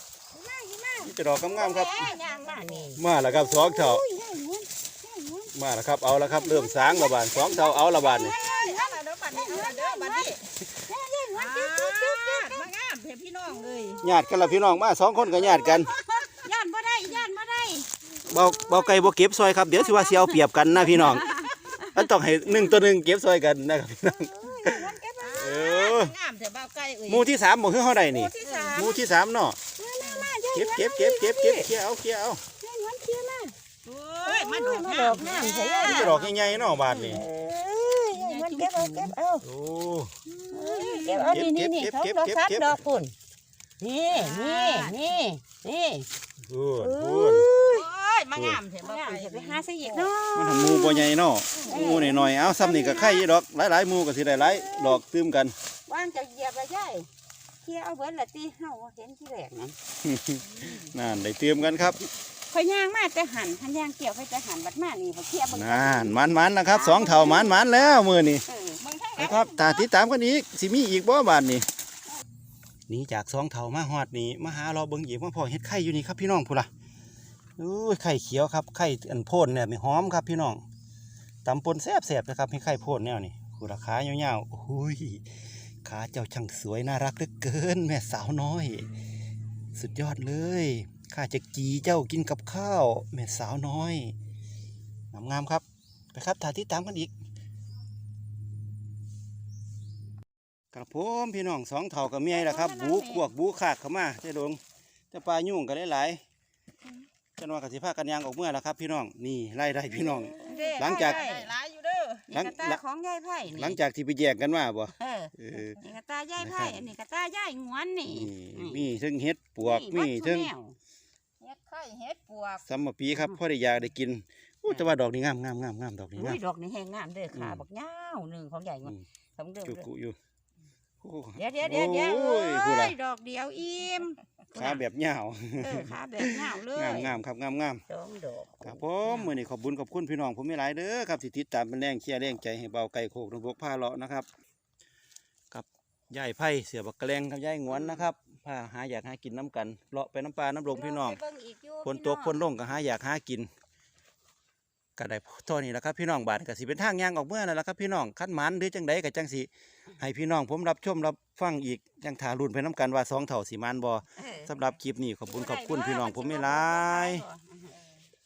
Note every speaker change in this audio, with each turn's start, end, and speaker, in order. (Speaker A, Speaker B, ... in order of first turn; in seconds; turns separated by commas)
Speaker A: 0.3-5.5, Speaker B: 1.0-2.1, Speaker C: 1.5-2.9, Speaker B: 3.0-4.0, Speaker B: 5.5-8.3, Speaker A: 6.2-12.7, Speaker C: 7.1-10.6, Speaker C: 11.3-14.0, Speaker A: 13.5-14.8, Speaker B: 14.0-15.9, Speaker A: 15.3-19.0, Speaker C: 15.5-16.3, Speaker B: 18.3-21.3, Speaker A: 19.8-21.4, Speaker C: 21.0-21.8, Speaker B: 21.9-24.8, Speaker A: 24.0-25.6, Speaker C: 25.2-27.3, Speaker B: 25.4-26.1, Speaker B: 27.1-29.6, Speaker A: 28.1-29.0, Speaker C: 28.4-28.9, Speaker A: 29.8-31.7, Speaker C: 30.0-30.3, Speaker B: 30.5-32.4, Speaker A: 32.6-33.6, Speaker C: 33.9-37.2, Speaker A: 34.2-39.5, Speaker B: 35.8-37.2, Speaker C: 38.1-39.1, Speaker B: 39.4-40.1, Speaker C: 40.3-41.5, Speaker A: 40.5-43.1, Speaker B: 41.3-42.8, Speaker A: 43.8-46.1, Speaker C: 44.1-45.2, Speaker B: 46.5-47.5, Speaker A: 46.8-47.9, Speaker C: 47.7-50.1, Speaker B: 48.3-48.6, Speaker A: 48.8-51.1, Speaker B: 50.3-55.5, Speaker C: 51.5-52.1, Speaker A: 51.6-53.3, Speaker A: 54.3-55.0, Speaker C: 55.9-57.1, Speaker A: 56.1-56.7, Speaker A: 57.6-59.8, Speaker B: 60.0-62.0, Speaker A: 62.5-67.7, Speaker B: 65.5-68.5, Speaker A: 68.5-68.8, Speaker C: 68.8-69.9, Speaker B: 69.2-71.7, Speaker B: 72.9-76.7, Speaker B: 77.6-80.6, Speaker B: 81.5-85.3, Speaker B: 85.8-88.9, Speaker B: 89.8-94.2, Speaker B: 95.1-97.1, Speaker B: 100.7-104.6, Speaker A: 102.4-103.2, Speaker C: 102.6-102.9, Speaker B: 105.1-106.2, Speaker B: 107.4-111.2, Speaker A: 109.9-111.5, Speaker C: 110.4-112.3, Speaker A: 112.3-113.8, Speaker B: 112.3-112.8, Speaker B: 113.5-115.8, Speaker A: 115.0-118.9, Speaker B: 116.4-116.8, Speaker B: 118.1-120.5, Speaker A: 119.6-120.8, Speaker C: 121.4-122.6, Speaker B: 122.7-126.4, Speaker A: 123.1-123.4, Speaker A: 124.7-124.9, Speaker A: 126.2-129.9, Speaker B: 127.3-127.7, Speaker B: 129.6-130.2, Speaker B: 131.0-133.0, Speaker A: 131.4-134.8, Speaker B: 134.5-137.8, Speaker A: 135.6-137.2, Speaker A: 137.9-139.3, Speaker B: 138.6-144.3, Speaker B: 145.5-151.2, Speaker A: 150.7-152.5, Speaker B: 151.8-153.5, Speaker B: 155.0-167.2, Speaker A: 164.2-164.6, Speaker A: 165.3-167.9